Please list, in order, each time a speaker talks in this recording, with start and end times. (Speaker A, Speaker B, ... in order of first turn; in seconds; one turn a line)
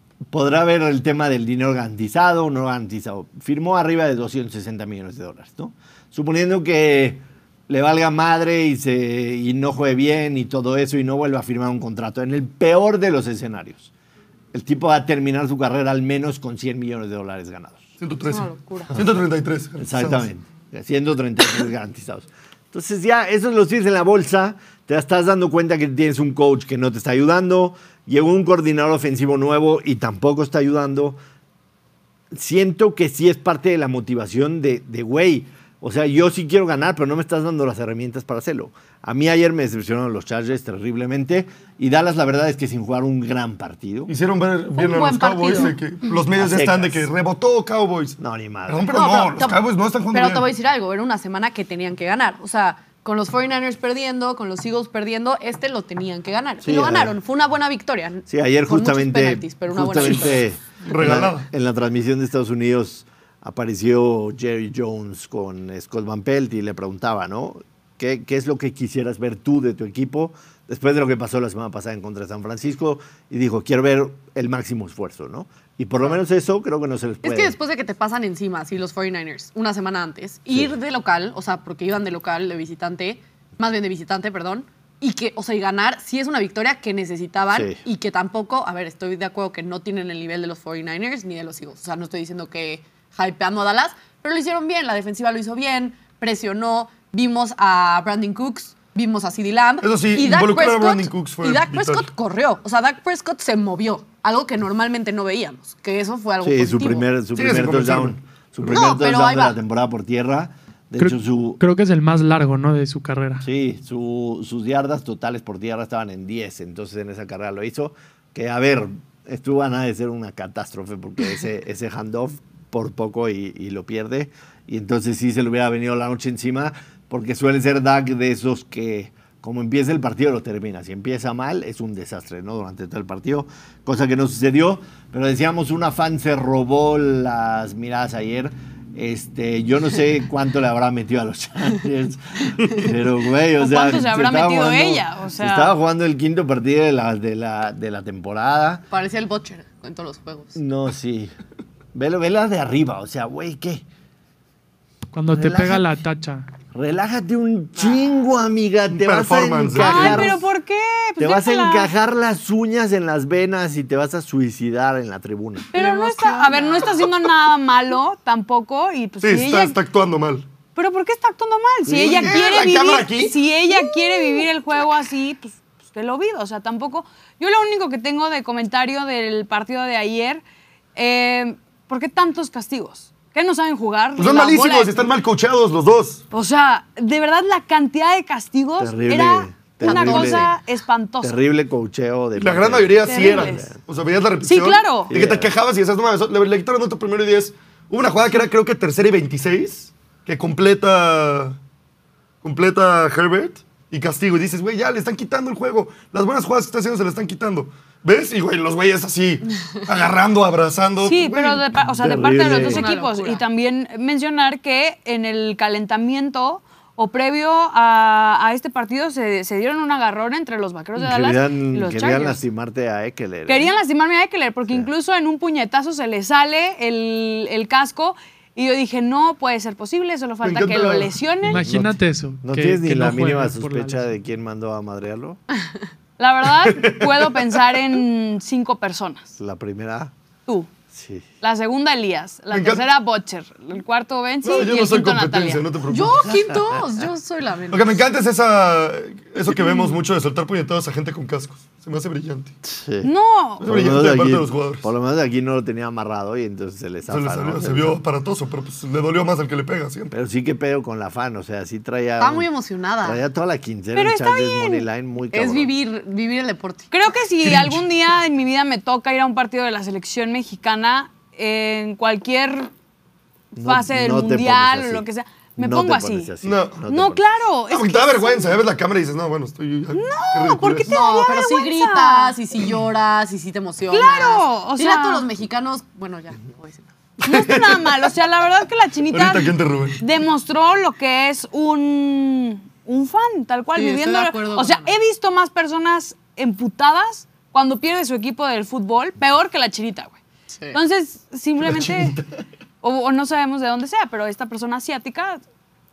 Speaker A: 0.3-13.9
Speaker A: 14.5-17.9
Speaker B: 18.0-20.3
Speaker C: 18.2-19.0
Speaker A: 19.8-31.2
Speaker A: 32.3-44.1
Speaker B: 44.1-50.5
Speaker C: 44.8-46.1
Speaker A: 46.3-47.1
Speaker A: 48.2-49.0
Speaker C: 48.9-60.4
Speaker A: 56.6-57.1
Speaker A: 58.3-77.5
Speaker B: 60.8-61.5
Speaker C: 77.2-107.0
Speaker A: 80.5-80.8
Speaker A: 87.5-87.8
Speaker B: 99.8-102.1
Speaker A: 106.4-111.6
Speaker B: 107.3-108.2
Speaker C: 108.7-109.6
Speaker D: 111.0-113.4
Speaker A: 113.4-148.8
Speaker E: 143.6-145.7
Speaker C: 148.9-150.5
Speaker A: 150.5-151.3
Speaker A: 151.9-153.8
Speaker D: 155.1-156.5
Speaker A: 155.3-155.8
Speaker A: 156.7-160.4
Speaker B: 159.0-160.4
Speaker E: 159.7-161.9
Speaker A: 161.2-165.7
Speaker E: 165.7-169.8
Speaker D: 165.8-166.4
Speaker C: 165.8-167.0
Speaker B: 169.2-170.4
Speaker E: 170.8-180.4
Speaker A: 171.9-172.5
Speaker B: 171.9-173.4
Speaker E: 180.9-185.0
Speaker B: 184.2-186.2
Speaker E: 186.3-191.3
Speaker A: 188.8-190.5
Speaker C: 189.8-190.5
Speaker A: 191.2-193.8
Speaker B: 192.4-201.6
Speaker E: 193.1-193.6
Speaker E: 194.4-195.1
Speaker A: 195.1-195.5
Speaker B: 202.4-211.6
Speaker E: 211.0-222.4
Speaker A: 212.0-212.9
Speaker C: 212.4-213.4
Speaker A: 220.9-223.7
Speaker E: 223.5-231.6
Speaker B: 230.4-231.2
Speaker D: 231.5-234.1
Speaker A: 231.5-235.4
Speaker E: 236.2-239.3
Speaker B: 236.6-237.4
Speaker A: 239.4-240.1
Speaker A: 240.9-241.2
Speaker E: 241.4-245.7
Speaker B: 242.5-242.8
Speaker B: 244.4-246.3
Speaker C: 245.9-248.1
Speaker B: 247.7-252.6
Speaker A: 252.6-253.1
Speaker E: 253.0-253.6
Speaker B: 253.6-254.9
Speaker A: 253.6-258.0
Speaker B: 257.1-260.1
Speaker A: 260.1-262.5
Speaker C: 262.2-263.2
Speaker A: 263.0-265.7
Speaker E: 263.9-264.9
Speaker C: 265.3-266.9
Speaker E: 266.9-272.7
Speaker B: 267.4-267.8
Speaker E: 273.5-276.3
Speaker A: 273.5-275.0
Speaker A: 275.6-277.2
Speaker B: 276.4-276.8
Speaker E: 276.9-278.6
Speaker B: 277.7-281.1
Speaker E: 279.9-282.3
Speaker C: 280.9-286.9
Speaker E: 283.9-285.2
Speaker E: 287.2-300.2
Speaker B: 287.3-287.9
Speaker B: 289.1-290.0
Speaker C: 293.7-294.9
Speaker C: 300.5-300.8
Speaker E: 300.7-302.2
Speaker B: 301.6-302.2
Speaker E: 302.8-305.4